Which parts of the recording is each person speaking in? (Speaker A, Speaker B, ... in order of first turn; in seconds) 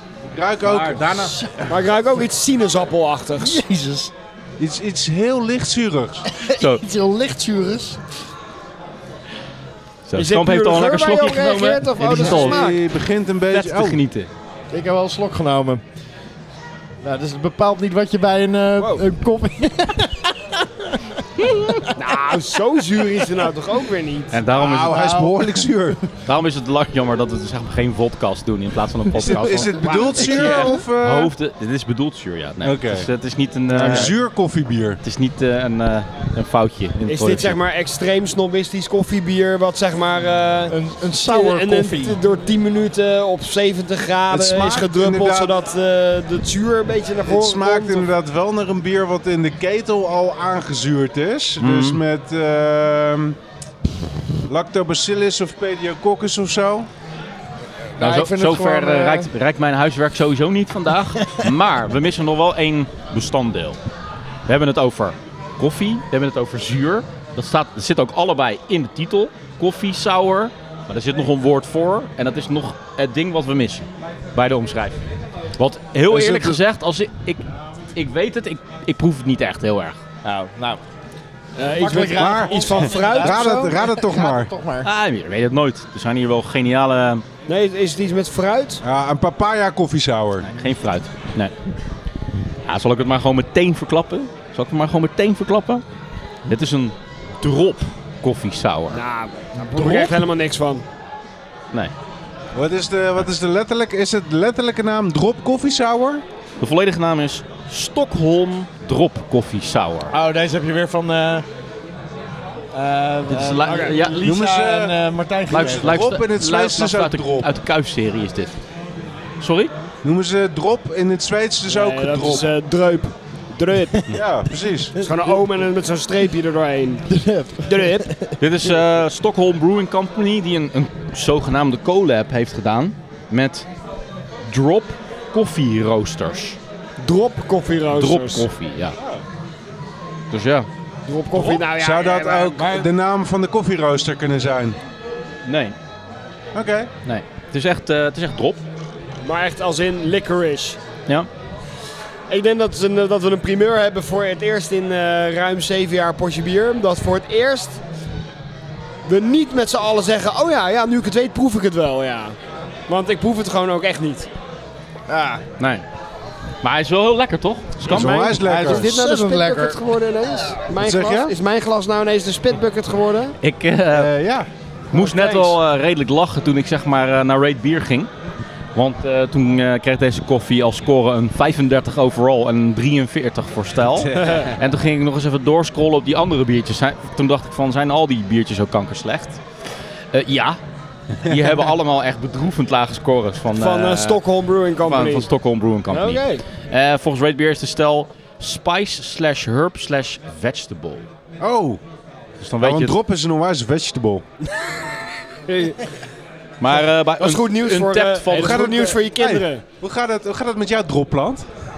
Speaker A: 0.3-1.6, 4.6-6.2, 12.1-14.0, 24.6-26.0, 29.1-31.3, 32.6-33.1, 33.7-35.0, 44.3-45.5, 47.2-53.4, 54.4-56.9, 76.1-76.6, 82.2-84.5, 88.8-90.5, 102.5-106.2, 114.2-115.0, 115.5-117.5, 120.0-122.4, 124.1-125.0, 139.0-139.2, 141.3-144.8, 146.5-146.9, 167.9-168.9, 170.8-171.3, 173.9-175.6, 183.9-184.6, 201.4-201.8, 202.6-204.2, 208.3-211.5
Speaker B: 0.6-1.4, 6.5-6.8, 10.1-12.6, 13.5-14.3, 24.3-25.0, 26.2-34.1, 35.0-37.6, 51.6-52.0, 58.0-63.8, 64.5-75.0, 75.6-80.0, 84.8-87.2, 90.4-91.5, 92.7-95.8, 96.5-99.0, 106.6-110.1, 113.3-114.2, 115.5-118.6, 119.4-119.7, 128.4-133.7, 134.4-136.6, 137.9-139.0, 140.3-140.7, 145.4-145.8, 147.0-148.6, 165.6-165.8, 166.6-168.2, 173.4-174.1, 174.9-178.1, 178.7-189.4, 190.1-190.6, 191.2-194.2, 194.8-201.0, 202.4-203.0, 206.6-208.6
Speaker C: 1.0-1.7, 3.4-4.1, 6.2-8.0, 14.7-15.8, 17.0-22.0, 24.9-25.5, 29.2-30.8, 33.7-34.1, 40.7-42.2, 58.0-59.3, 80.2-80.8, 81.6-84.9, 110.1-111.5, 112.7-116.0, 127.1-128.3, 165.1-165.4, 168.4-170.5
Speaker D: 1.7-3.6, 10.2-12.8, 18.8-19.1, 21.9-24.4, 29.9-30.7, 37.0-48.1, 81.6-83.8, 87.5-88.8, 98.9-100.8, 113.7-114.0, 121.7-124.2, 125.0-127.0, 127.7-128.1, 137.0-138.5, 141.1-142.8, 149.2-150.8, 152.3-157.8, 159.1-162.4, 162.9-164.3, 167.8-173.4, 184.2-184.4, 193.5-195.3, 195.9-196.4, 205.5-205.8, 207.2-209.6